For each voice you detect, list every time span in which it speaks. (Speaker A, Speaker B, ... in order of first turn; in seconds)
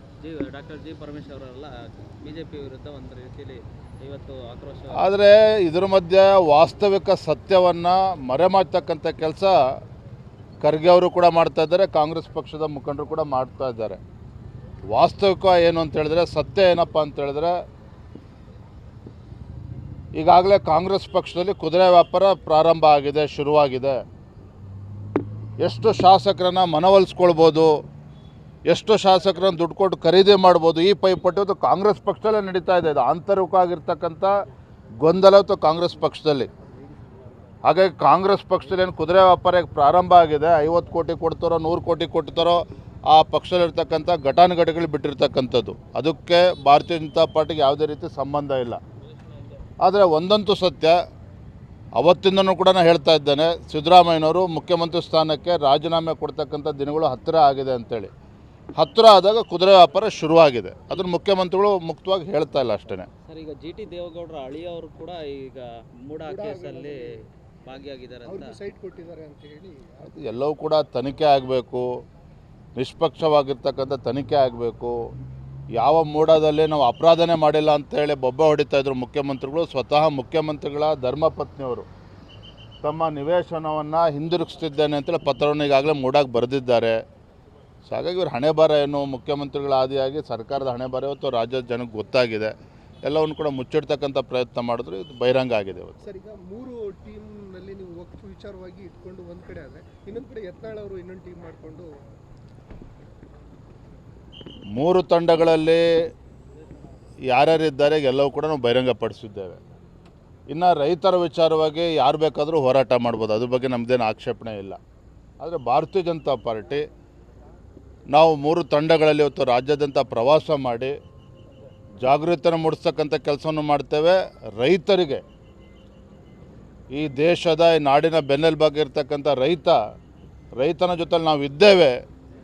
Speaker A: 0.2-5.0, 63.2-68.5
Speaker B: 4.9-9.6, 10.6-14.0, 14.9-17.5, 20.1-24.0, 25.6-27.7, 28.7-34.3, 35.0-36.5, 37.6-48.8, 49.8-51.0, 52.0-58.1, 58.8-63.1, 70.0-71.8, 72.8-74.9, 75.7-81.9, 82.8-87.0, 87.9-95.9, 104.7-105.8, 107.3-109.6, 110.5-114.8, 115.4-116.8, 118.1-120.9, 122.0-125.2, 126.9-129.8, 130.6-132.0
Speaker C: 66.2-67.0, 68.2-70.1, 96.0-101.9